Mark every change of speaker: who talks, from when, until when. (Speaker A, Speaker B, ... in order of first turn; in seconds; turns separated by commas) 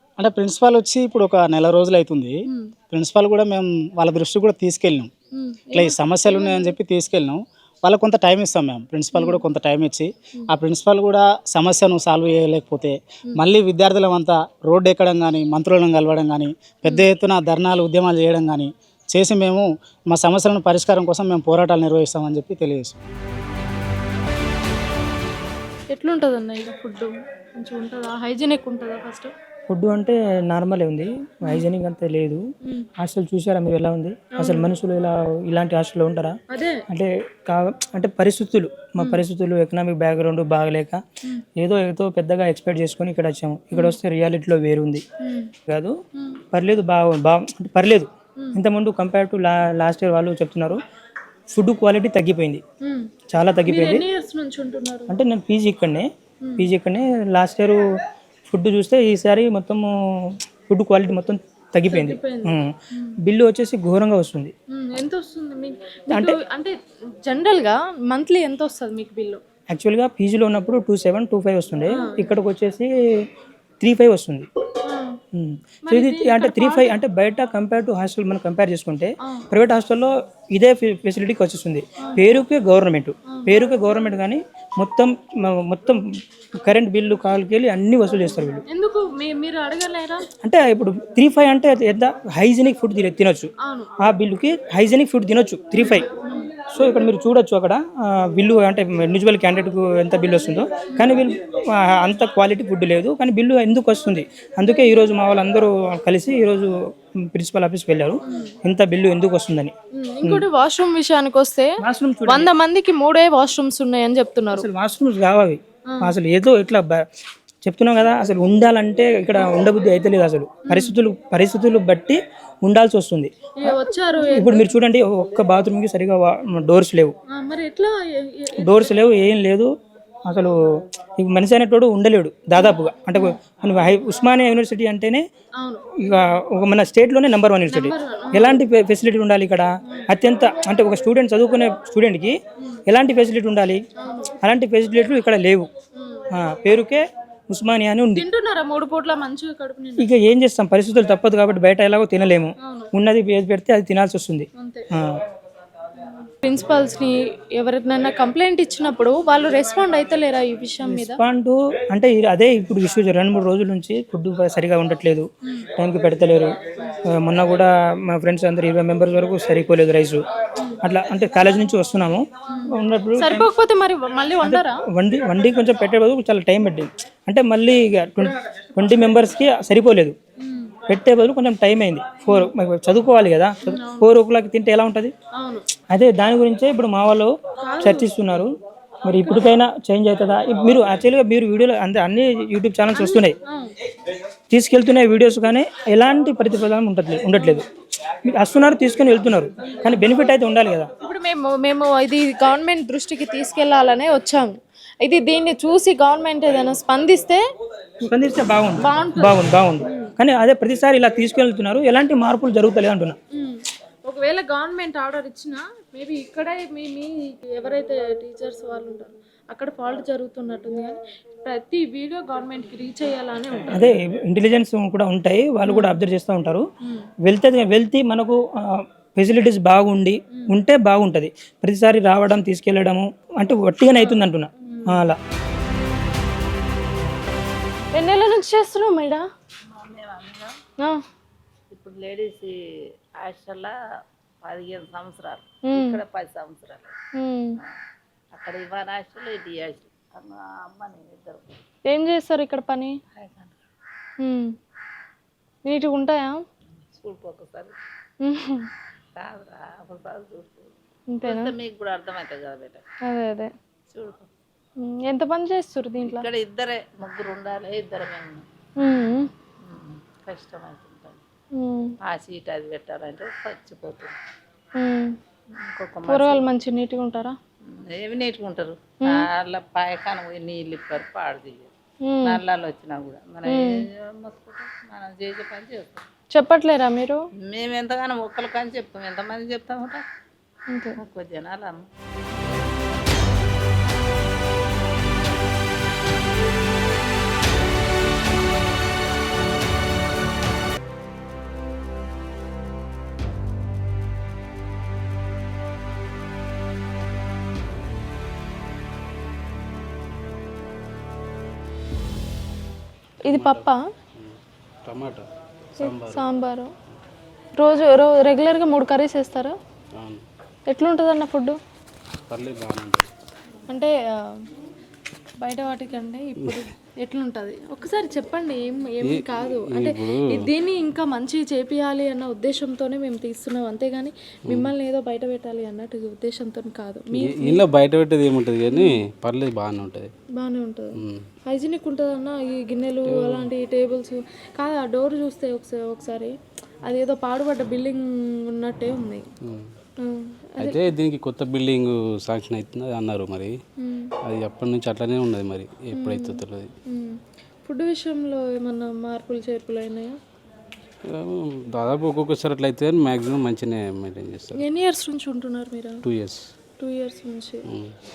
Speaker A: 0.2-2.4, Speaker A: 2.9-5.1, Speaker B: 5.3-6.8, Speaker A: 5.7-23.0, Speaker B: 9.1-9.4, Speaker B: 25.9-29.3, Speaker C: 29.7-32.4, Speaker C: 33.0-36.4, Speaker B: 34.4-34.7, Speaker B: 36.5-36.8, Speaker C: 36.9-41.0, Speaker C: 41.6-45.0, Speaker B: 45.2-45.5, Speaker C: 46.5-50.8, Speaker C: 51.5-52.6, Speaker B: 52.8-53.1, Speaker C: 53.3-54.0, Speaker B: 53.7-55.2, Speaker C: 55.1-56.0, Speaker C: 56.6-57.8, Speaker C: 58.5-59.9, Speaker C: 60.7-62.7, Speaker B: 61.9-63.1, Speaker C: 63.2-64.5, Speaker B: 64.7-66.7, Speaker C: 66.1-66.3, Speaker B: 67.2-69.4, Speaker C: 69.7-72.8, Speaker B: 71.9-72.4, Speaker C: 73.8-74.5, Speaker B: 74.8-75.2, Speaker C: 75.3-85.1, Speaker B: 75.9-77.0, Speaker B: 83.3-84.1, Speaker C: 85.7-86.0, Speaker C: 86.6-88.6, Speaker B: 88.7-90.2, Speaker C: 90.4-93.5, Speaker B: 93.6-93.9, Speaker C: 94.0-96.0, Speaker B: 95.8-96.5, Speaker C: 96.7-97.8, Speaker C: 98.3-101.3, Speaker B: 100.9-101.2, Speaker C: 101.9-106.7, Speaker B: 104.7-105.0, Speaker C: 107.3-109.7, Speaker B: 108.2-108.5, Speaker B: 109.9-111.7, Speaker C: 111.8-112.5, Speaker B: 112.2-114.7, Speaker C: 114.5-116.9, Speaker C: 117.7-127.1, Speaker B: 120.7-121.0, Speaker B: 123.6-124.7, Speaker B: 127.3-129.0, Speaker C: 128.6-129.7, Speaker C: 130.3-130.5, Speaker C: 131.2-135.2, Speaker B: 132.6-133.3, Speaker B: 135.6-136.1, Speaker C: 136.0-142.3, Speaker B: 137.7-138.6, Speaker C: 142.9-143.8, Speaker B: 144.0-144.3, Speaker C: 144.4-145.7, Speaker B: 145.9-146.2, Speaker C: 146.3-148.2, Speaker B: 148.1-150.1, Speaker C: 150.0-155.0, Speaker B: 152.6-152.9, Speaker B: 154.6-154.9, Speaker B: 156.4-161.2, Speaker C: 160.8-165.2, Speaker C: 165.8-166.5, Speaker C: 167.1-170.2, Speaker C: 170.8-173.5, Speaker B: 172.5-174.8, Speaker C: 174.4-180.1, Speaker B: 180.4-180.7, Speaker C: 180.9-185.1, Speaker B: 183.6-184.1, Speaker B: 185.4-185.6, Speaker C: 185.9-188.5, Speaker B: 187.6-188.1, Speaker C: 189.0-193.3, Speaker B: 192.9-193.7, Speaker C: 194.5-197.6, Speaker B: 197.3-197.6, Speaker C: 198.2-200.9, Speaker B: 199.6-200.3, Speaker B: 201.0-207.4, Speaker C: 208.0-213.2, Speaker B: 208.8-210.1, Speaker B: 213.3-223.9, Speaker C: 223.7-226.6, Speaker B: 225.6-226.0, Speaker C: 227.2-228.3, Speaker C: 229.2-235.2, Speaker B: 233.9-235.0, Speaker B: 237.9-239.2, Speaker D: 239.7-240.6, Speaker D: 241.7-242.6, Speaker D: 243.2-243.7, Speaker D: 244.4-246.9, Speaker B: 245.7-246.0, Speaker B: 247.2-247.6, Speaker D: 248.3-251.4, Speaker B: 251.8-252.9, Speaker D: 253.1-253.5, Speaker B: 254.2-254.5, Speaker B: 255.6-256.4, Speaker D: 257.0-257.8, Speaker B: 258.2-258.7, Speaker D: 259.1-260.7, Speaker B: 261.1-261.5, Speaker D: 261.2-262.8, Speaker B: 263.0-263.5, Speaker D: 263.9-264.2, Speaker B: 264.8-266.2, Speaker D: 266.0-268.4, Speaker B: 268.8-269.3, Speaker D: 269.6-271.2, Speaker B: 271.5-271.9, Speaker D: 272.0-274.1, Speaker B: 274.8-275.1, Speaker D: 275.6-276.4, Speaker B: 276.1-277.3, Speaker D: 277.7-281.7, Speaker B: 282.1-282.4, Speaker D: 282.2-286.0, Speaker B: 286.3-287.2, Speaker D: 287.4-290.0, Speaker B: 290.7-291.0, Speaker D: 291.0-291.9, Speaker B: 313.2-313.8, Speaker E: 313.3-315.2, Speaker E: 315.8-316.2, Speaker B: 315.8-316.7, Speaker B: 317.6-319.5, Speaker E: 320.0-320.2, Speaker B: 320.7-321.6, Speaker E: 322.3-323.1, Speaker B: 323.7-324.3, Speaker B: 325.4-337.6, Speaker E: 329.0-330.4, Speaker E: 334.5-334.7, Speaker E: 337.1-340.1, Speaker B: 340.4-340.9, Speaker E: 340.9-341.2, Speaker B: 341.5-346.3, Speaker E: 343.1-343.5, Speaker B: 346.8-349.2, Speaker E: 349.4-349.7, Speaker B: 350.0-350.8, Speaker E: 350.6-353.6, Speaker B: 353.8-354.1, Speaker E: 354.2-356.7, Speaker B: 355.9-360.1, Speaker E: 361.1-364.6, Speaker B: 364.6-366.0, Speaker E: 366.0-366.5, Speaker B: 366.8-367.6, Speaker E: 367.7-367.9